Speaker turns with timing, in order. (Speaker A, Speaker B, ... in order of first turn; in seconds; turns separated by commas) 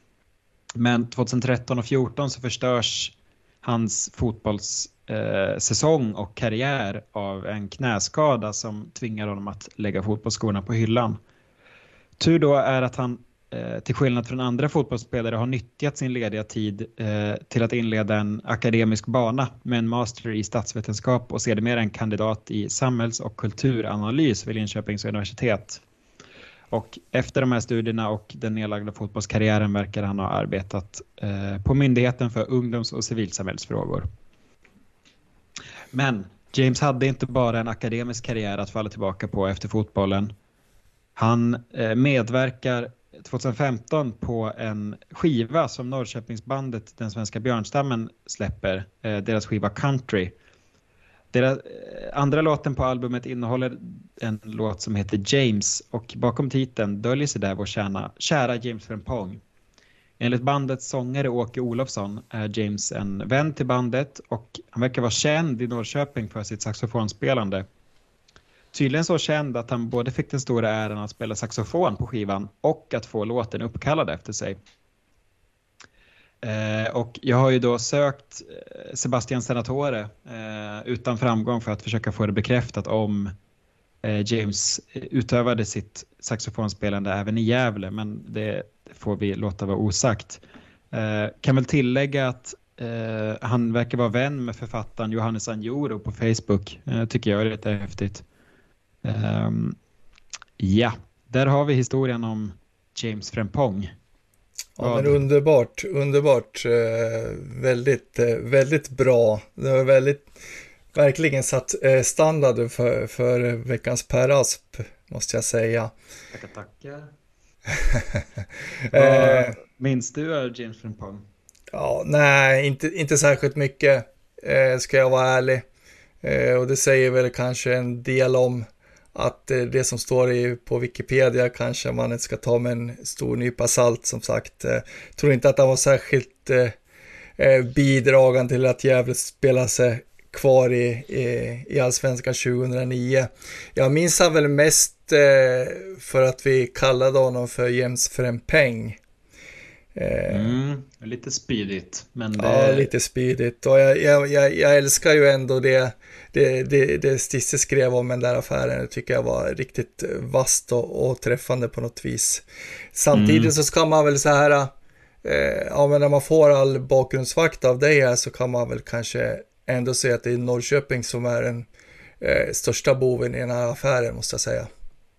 Speaker A: 0.8-11.2, Speaker A: 12.2-25.8, Speaker A: 26.7-34.1, Speaker A: 35.9-40.3, Speaker A: 41.1-50.3, Speaker A: 51.3-59.4, Speaker A: 60.2-67.7, Speaker A: 68.7-74.6, Speaker A: 76.4-83.3, Speaker A: 84.0-98.2, Speaker A: 99.0-99.8, Speaker A: 100.6-103.9, Speaker B: 104.8-110.3, Speaker A: 104.8-105.2, Speaker B: 110.9-115.9, Speaker A: 116.3-117.1, Speaker B: 117.8-118.2, Speaker B: 118.9-119.5, Speaker A: 118.9-121.2, Speaker B: 121.7-125.6, Speaker B: 126.2-136.8, Speaker B: 137.4-149.0, Speaker B: 149.9-150.5, Speaker A: 150.3-152.9, Speaker B: 152.4-164.7, Speaker A: 163.1-163.5, Speaker B: 165.2-171.7, Speaker B: 172.2-174.7